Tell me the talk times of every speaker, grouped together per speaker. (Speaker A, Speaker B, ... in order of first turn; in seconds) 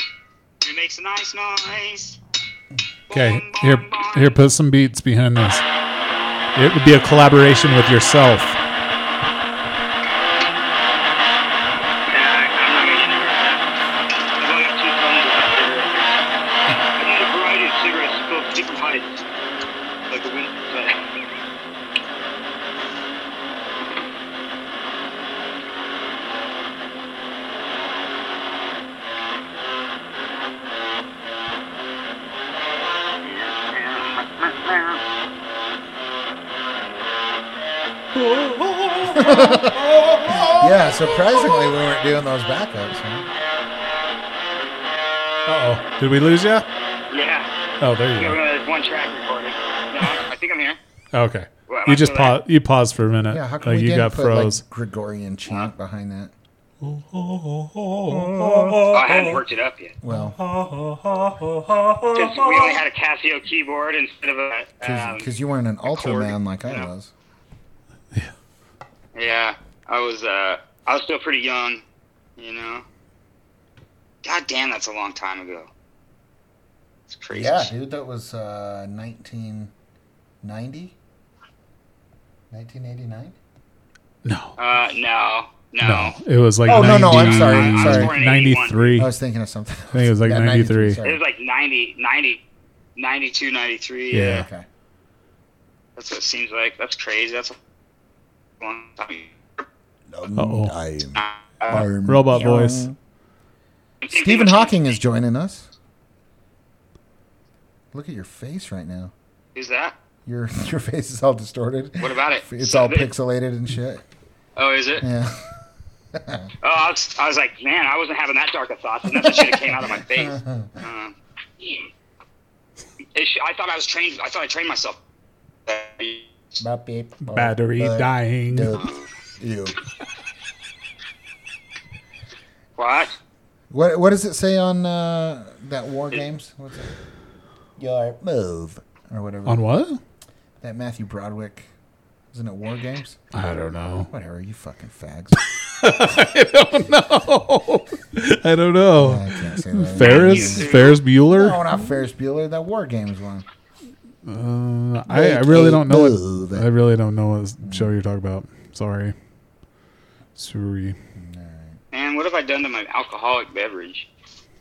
Speaker A: 0.6-2.2, 3.1-4.4, 12.1-13.7, 14.4-16.2, 16.9-19.2, 20.1-21.0, 33.2-35.0, 47.1-47.5, 48.1-50.8, 51.7-52.4, 58.9-60.0, 62.1-65.3, 65.8-66.9, 69.1-71.8, 72.4-72.8, 74.2-75.7, 77.1-77.7, 84.6-89.0, 91.0-92.4, 93.0-94.4, 96.0-97.6, 98.6-99.7, 101.1-101.8, 104.0-105.0, 109.5-110.0, 112.0-113.1, 114.5-115.0, 116.6-121.8, 123.1-125.0, 125.7-126.6, 128.7-129.1, 132.8-133.1, 150.0-151.0, 161.9-164.1
Speaker B: 3.1-5.6, 6.5-8.6, 38.1-41.0, 45.5-46.6, 47.8-48.4, 51.1-54.6, 56.8-59.2, 60.1-62.7, 84.2-84.5, 85.8-89.1, 89.9-91.0, 94.1-94.5, 100.3-100.7, 101.7-102.9, 127.2-128.7, 139.4-140.0, 143.3-144.1, 145.7-151.7, 154.2-159.1, 160.4-160.9
Speaker C: 39.1-39.8, 40.4-43.3, 53.3-56.3, 58.1-58.8, 60.0-60.4, 64.8-67.1, 77.3-79.7, 80.4-81.0, 82.5-83.3, 86.7-88.2, 89.0-91.2, 94.1-94.7, 100.1-103.0, 104.1-105.7, 107.9-109.1, 110.2-114.0, 115.0-115.5, 116.1-116.5, 119.1-120.7, 126.6-129.8, 133.7-136.9, 137.8-139.6, 140.6-141.7, 142.3-143.2, 144.0-145.4, 148.9-153.4, 155.1-156.7, 157.6-157.9, 161.1-161.8